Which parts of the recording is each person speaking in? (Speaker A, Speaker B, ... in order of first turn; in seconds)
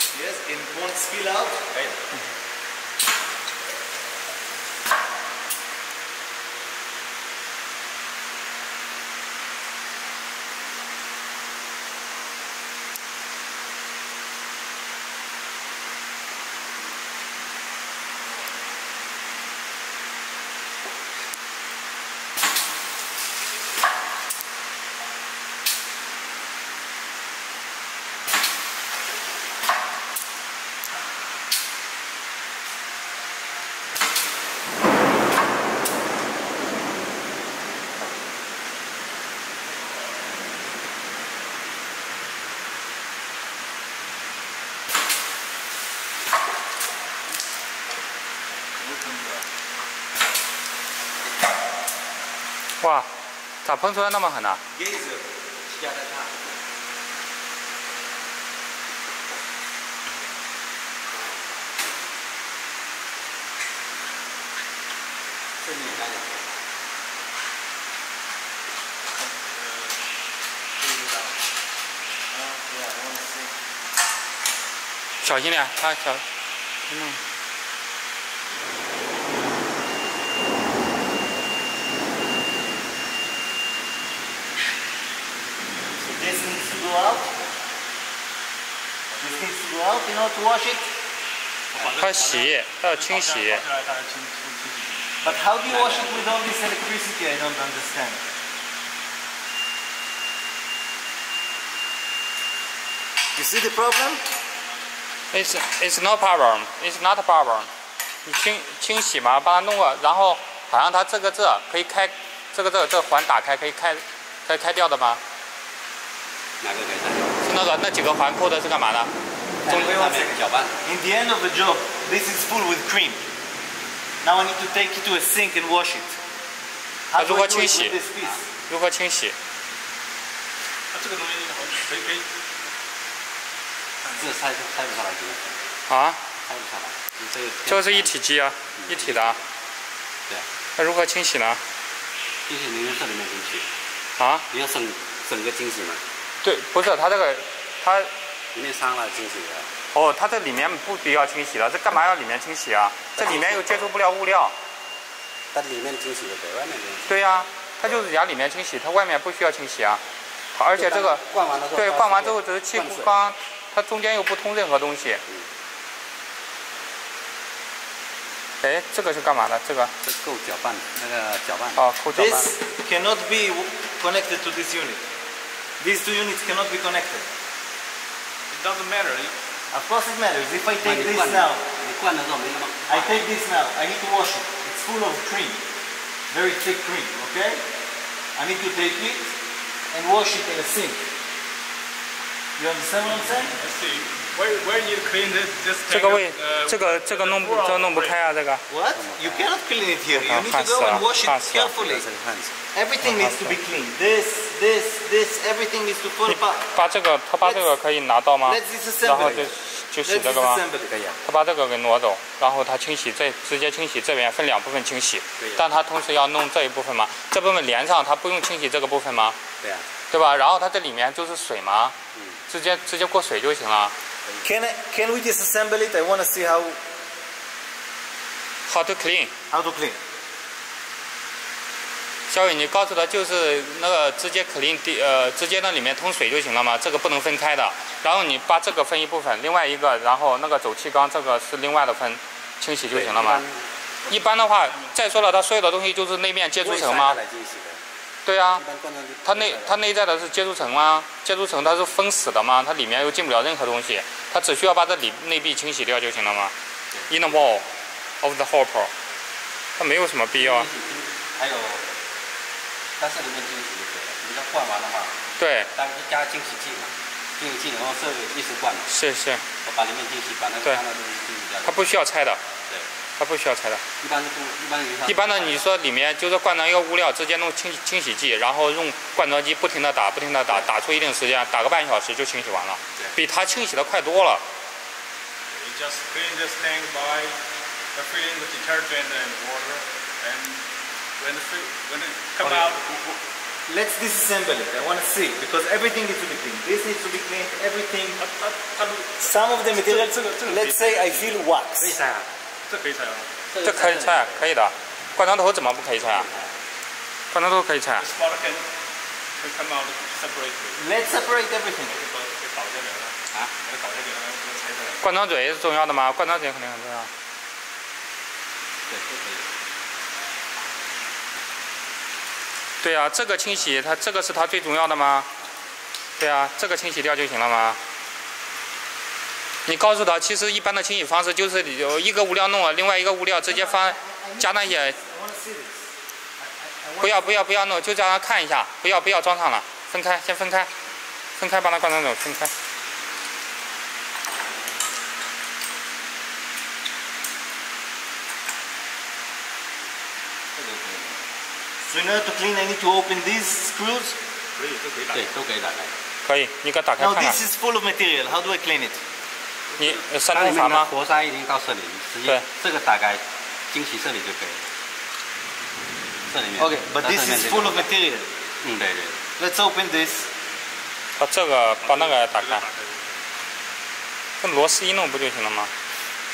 Speaker A: 0.1-1.9, 48.8-49.4, 54.7-55.2, 72.3-73.5, 86.0-87.3, 89.2-90.9, 95.2-98.2, 103.3-104.2, 119.7-123.2, 124.2-126.2, 127.1-128.4, 172.1-175.0, 175.8-177.3, 179.7-181.6, 182.9-185.6, 186.3-187.6, 188.3-189.3, 189.9-191.1, 192.6-193.5, 198.7-202.0, 202.7-206.7, 208.4-210.9, 224.4-226.8, 229.5-230.0, 293.7-298.2, 299.2-301.9, 310.8-311.9, 333.4-337.4, 351.9-354.2, 357.0-359.0, 366.6-368.3, 369.4-370.3
Speaker B: 52.8-53.1, 53.6-54.6, 75.2-76.2, 76.9-77.2, 92.0-93.6, 105.3-107.7, 108.2-115.2, 117.4-119.1, 119.7-120.0, 127.2-128.0, 128.7-129.3, 135.9-136.2, 137.7-139.4, 140.8-141.6, 144.2-144.4, 146.4-148.1, 149.9-154.5, 157.1-160.0, 160.5-165.2, 168.6-169.9, 171.8-172.5, 195.9-198.6, 200.2-201.7, 203.0-203.6, 206.3-210.6, 211.2-219.4, 220.1-221.9, 222.5-223.9, 228.7-229.3, 232.3-243.4, 244.1-247.2, 248.2-248.6, 249.2-256.5, 257.1-257.6, 258.2-258.9, 259.8-260.7, 265.4-265.7, 268.9-269.4, 271.6-272.4, 273.2-273.8, 275.1-284.4, 303.6-306.3, 307.3-308.0, 315.0-317.1, 322.8-325.3, 326.2-327.8, 329.6-335.0, 337.0-340.7, 341.4-342.5, 356.2-357.4, 359.8-360.9, 371.2-372.6, 374.4-375.7
Speaker C: 55.7-56.6, 65.6-66.4, 95.7-96.3, 116.6-117.4, 119.6-120.8, 134.1-135.6, 136.4-138.1, 138.8-139.3, 142.4-143.7, 144.5-146.0, 148.5-149.7, 153.1-153.9, 155.5-157.2, 160.7-163.2, 170.0-171.9, 180.8-183.2, 198.9-199.5, 201.5-202.6, 210.9-211.2, 215.4-215.7, 219.6-219.8, 222.1-222.4, 242.9-243.7, 246.6-247.8, 248.6-249.8, 256.9-257.4, 260.4-261.9, 263.0-268.9, 269.6-271.9, 274.0-275.6, 301.8-302.3, 303.5-304.5, 318.9-319.5, 350.5-351.2, 355.1-355.9, 360.3-364.7, 366.3-367.9, 368.6-369.2
Speaker D: 69.1-70.0, 70.8-71.4, 91.7-95.2, 130.9-132.3, 178.5-179.3, 193.6-198.2, 244.0-245.2, 285.5-287.4, 287.9-290.6, 291.2-292.9, 298.2-301.5, 302.7-303.3, 308.0-308.7, 309.4-311.0, 311.9-315.1, 354.6-355.3, 371.8-373.1